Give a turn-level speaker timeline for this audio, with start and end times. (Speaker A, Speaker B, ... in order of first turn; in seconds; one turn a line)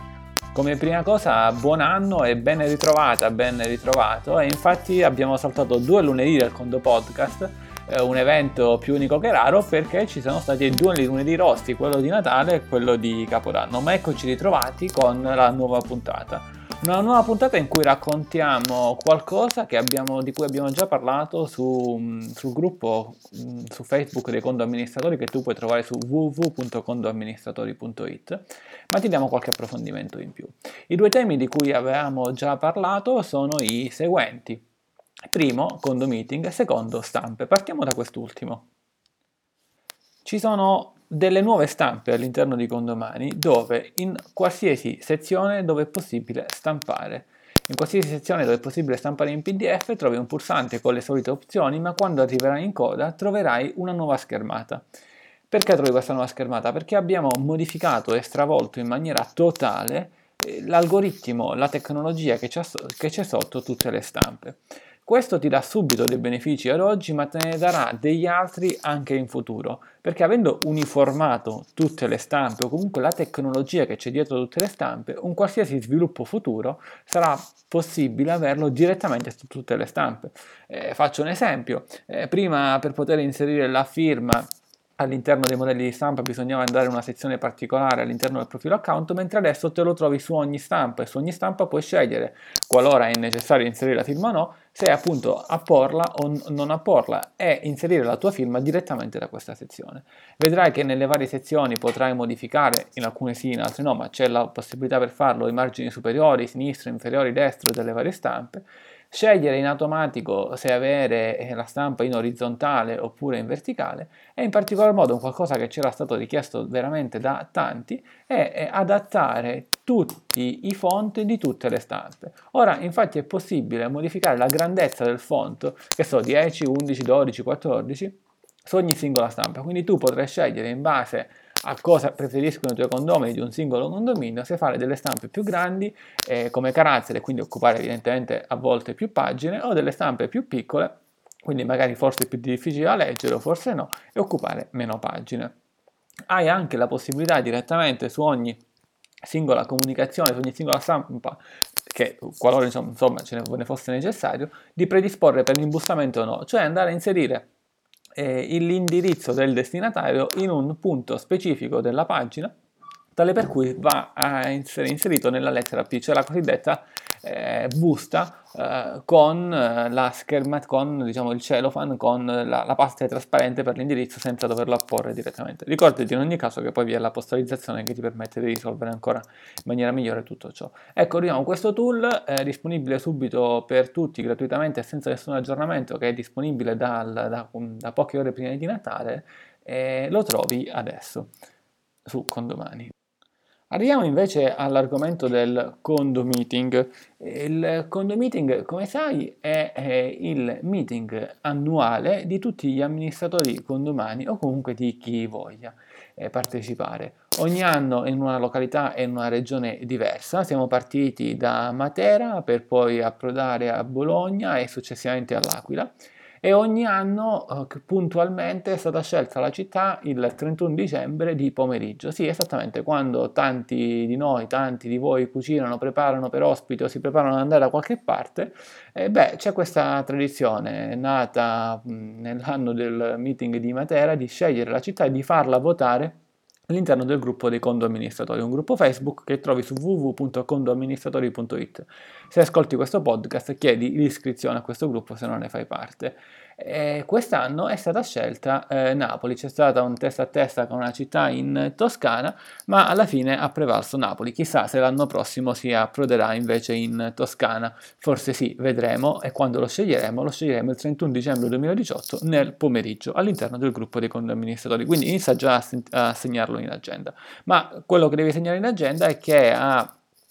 Speaker A: 0.5-34.6
Speaker A: 35.3-38.7
Speaker A: 40.2-54.8
Speaker A: 55.5-145.5
Speaker A: 146.3-148.6
Speaker A: 149.2-157.5
Speaker A: 158.2-162.5
Speaker A: 163.2-191.3
Speaker A: 192.1-192.9
Speaker A: 193.7-215.9
Speaker A: 216.4-236.2
Speaker A: 236.7-269.9